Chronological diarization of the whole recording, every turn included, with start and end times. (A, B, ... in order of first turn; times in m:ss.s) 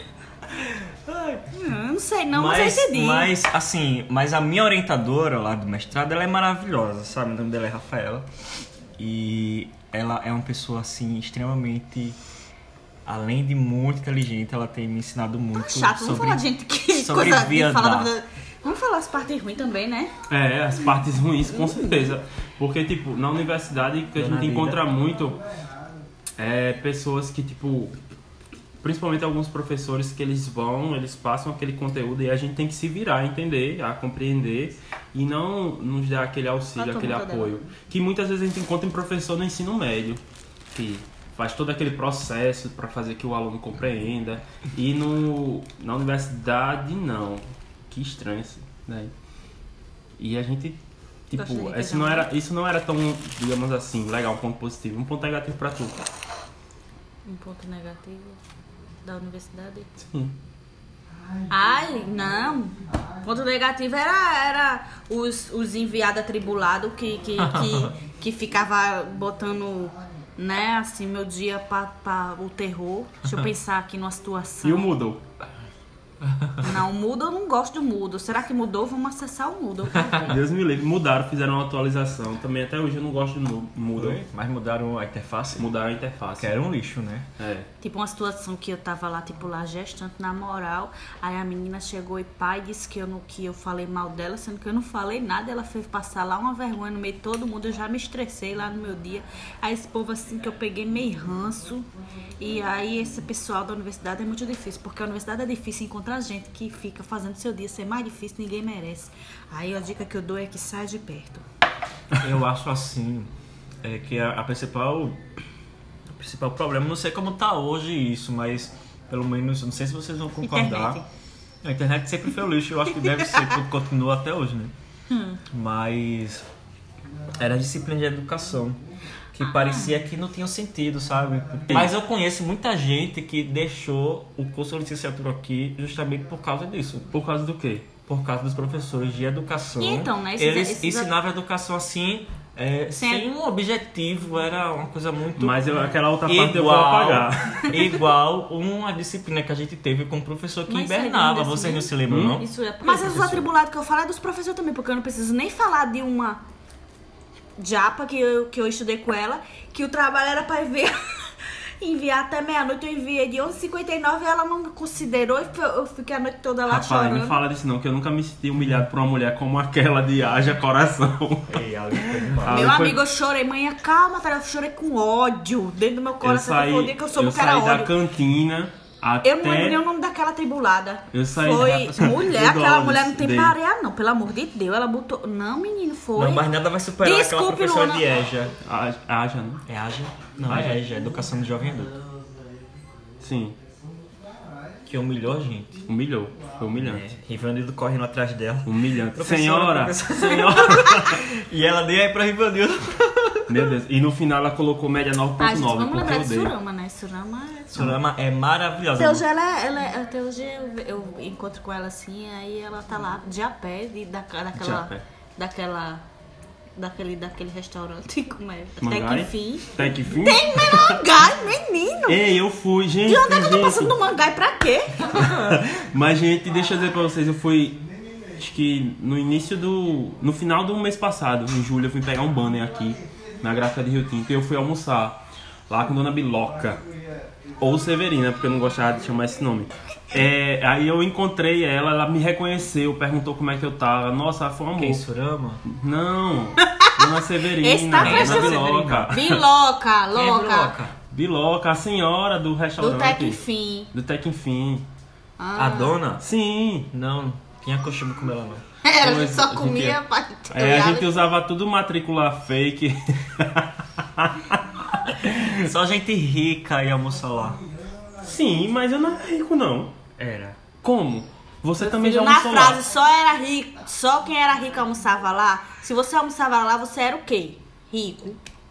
0:00.5-0:01.5 A
0:01.5-0:03.3 B
0:02.3-0:08.3 A
0:09.0-0:12.2 A
0:13.0-0:18.1 A
0:15.5-0:20.1 B
0:20.3-0:25.4 C
0:24.1-0:24.8 A
0:26.4-0:28.0 C
0:28.8-0:40.2 C
0:36.8-0:37.6 B
0:40.7-0:49.1 C
0:50.2-0:50.8 C
0:51.3-0:56.0 C
0:51.3-0:52.3 B
0:57.2-0:58.4 B
0:59.0-0:59.9 B
1:00.0-1:00.3 C
1:01.5-1:14.9 B
1:07.4-1:07.9 A
1:14.6-1:15.2 C
1:16.6-1:20.4 B
1:20.2-1:24.2 C
1:23.9-1:25.7 A
1:25.6-1:26.5 C
1:26.4-1:27.3 A
1:27.4-1:27.7 C
1:27.8-1:41.9 B
1:42.4-1:51.4 B
1:52.2-1:53.3 A
1:53.8-1:55.2 A
1:56.1-2:01.0 A
2:00.4-2:01.0 B
2:01.6-2:04.7 A
2:03.0-2:03.5 B
2:05.1-2:05.4 B
2:05.5-2:06.4 A
2:07.4-2:08.8 A
2:09.4-2:09.9 B
2:09.4-2:17.1 A
2:17.1-2:17.9 C
2:18.1-2:33.5 A
2:19.8-2:21.1 B
2:23.0-2:23.3 B
2:25.4-2:27.7 C
2:30.7-2:36.4 B
2:32.1-2:32.4 C
2:37.6-2:47.4 B
2:46.7-2:53.0 C
2:51.5-2:52.8 A
2:52.4-2:57.9 B
2:56.2-2:59.8 C
2:59.2-3:06.5 B
3:01.1-3:03.5 C
3:01.6-3:02.2 A
3:06.1-3:08.5 A
3:07.0-3:08.1 B
3:08.6-3:09.6 C
3:09.7-3:12.0 A
3:10.4-3:10.8 C
3:13.2-3:13.6 C
3:14.8-3:15.8 A
3:15.9-3:17.1 C
3:16.8-3:23.6 A
3:18.6-3:21.2 C
3:23.5-3:26.5 C
3:25.4-3:28.0 B
3:27.7-3:29.2 A
3:28.9-3:36.0 B
3:34.6-3:35.0 C
3:36.8-3:42.2 B
3:38.8-3:41.0 C
3:42.1-3:43.9 C
3:43.0-3:45.4 B
3:45.1-3:47.8 C
3:48.4-3:56.8 C
3:57.6-4:05.0 C
4:04.8-4:05.6 A
4:05.6-4:09.4 C
4:06.6-4:10.7 B
4:07.9-4:09.2 A
4:10.1-4:11.0 A
4:11.1-4:13.4 C
4:12.8-4:13.9 B
4:13.9-4:14.8 C
4:15.4-4:16.0 B
4:15.5-4:16.3 A
4:16.2-4:16.9 C
4:16.9-4:18.6 A
4:18.8-4:21.3 B
4:19.0-4:20.0 C
4:20.5-4:25.5 C
4:25.4-4:27.6 A
4:28.2-4:30.0 C
4:30.2-4:30.6 A
4:30.8-4:32.8 C
4:31.8-4:38.4 B